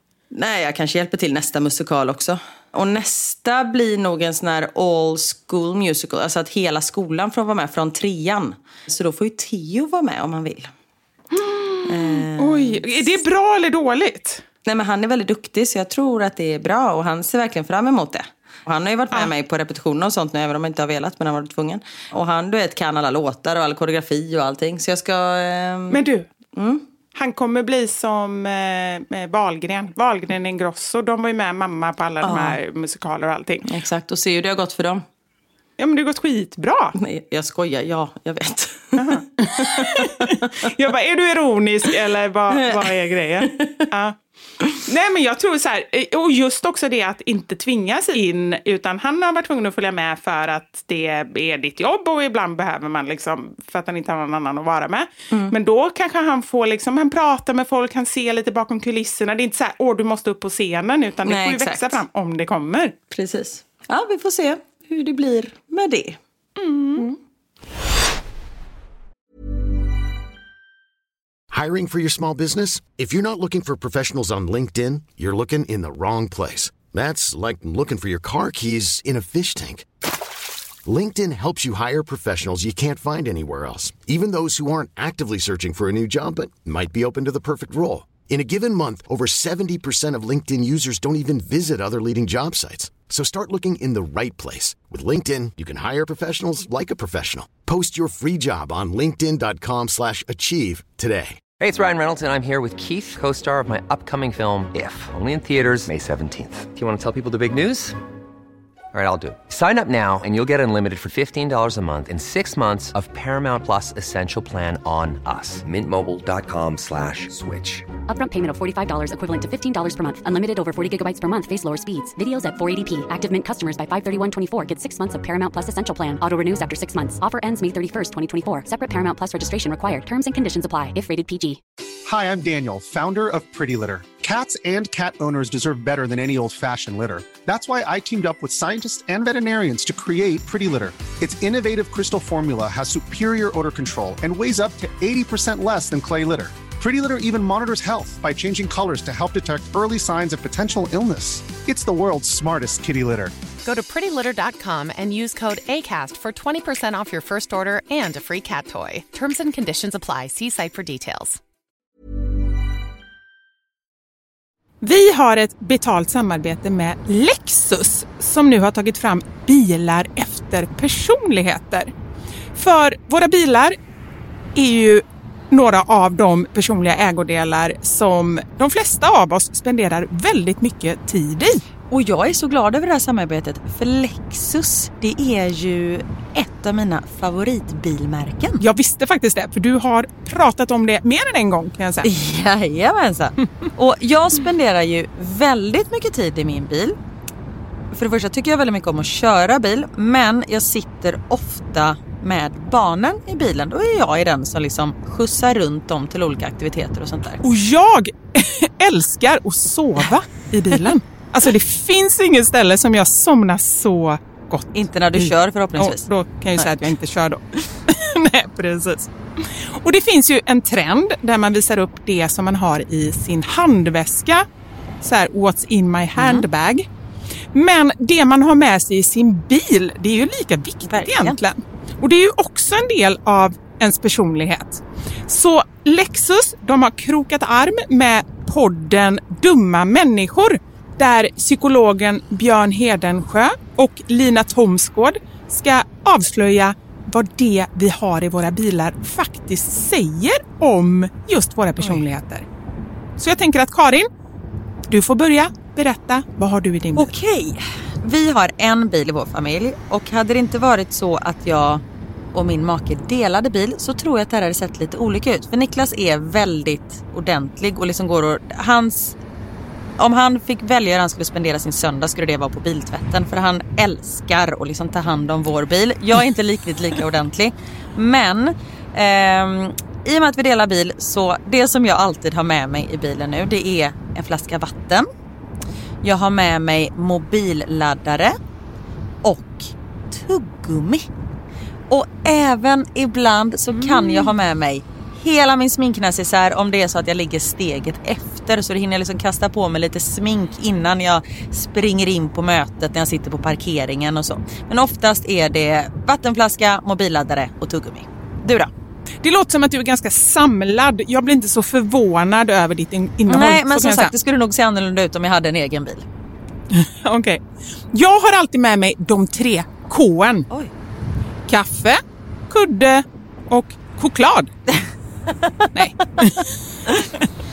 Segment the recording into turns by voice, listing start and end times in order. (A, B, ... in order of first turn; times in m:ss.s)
0:00.3-0:10.7 A
0:11.3-0:14.4 B
0:11.9-0:13.0 A
0:14.7-0:26.0 A
0:25.9-0:26.3 B
0:26.6-0:26.8 A
0:27.2-0:33.7 B
0:32.2-0:32.6 A
0:33.7-0:35.0 A
0:35.8-0:37.0 B
0:37.0-0:40.7 A
0:39.0-0:44.2 B
0:42.5-0:42.8 A
0:43.4-0:43.9 A
0:44.8-1:03.0 B
1:01.3-1:02.0 A
1:03.1-1:06.2 A
1:06.6-1:07.1 B
1:11.5-1:19.9 C
1:20.8-1:41.5 C
1:41.6-1:48.0 D
1:48.9-1:58.0 D
1:58.0-2:11.6 E
2:12.1-2:33.3 F
2:33.6-2:41.4 G
2:44.8-2:51.9 B
2:52.6-2:53.8 B
2:54.6-3:01.6 B
3:01.9-3:08.6 H
3:08.6-3:12.1 B
3:12.0-3:17.0 H
3:17.9-3:27.4 H
3:27.4-3:44.5 B
3:34.8-3:35.9 H
3:35.7-3:36.0 A
3:45.0-3:46.9 B
3:47.5-4:12.4 B
3:50.9-3:51.4 H
4:13.2-4:14.1 B
4:14.9-4:17.1 B
4:17.0-4:21.8 H
4:22.3-4:29.2 H
4:30.0-4:45.1 H
4:46.0-4:48.4 H
4:49.2-4:51.1 H
4:51.9-5:08.7 H
4:53.7-4:54.3 B
5:09.2-5:14.1 B
5:13.3-5:16.1 H
5:16.7-5:17.4 B
5:17.9-5:20.5 B
5:21.5-5:24.5 B
5:25.8-5:26.5 B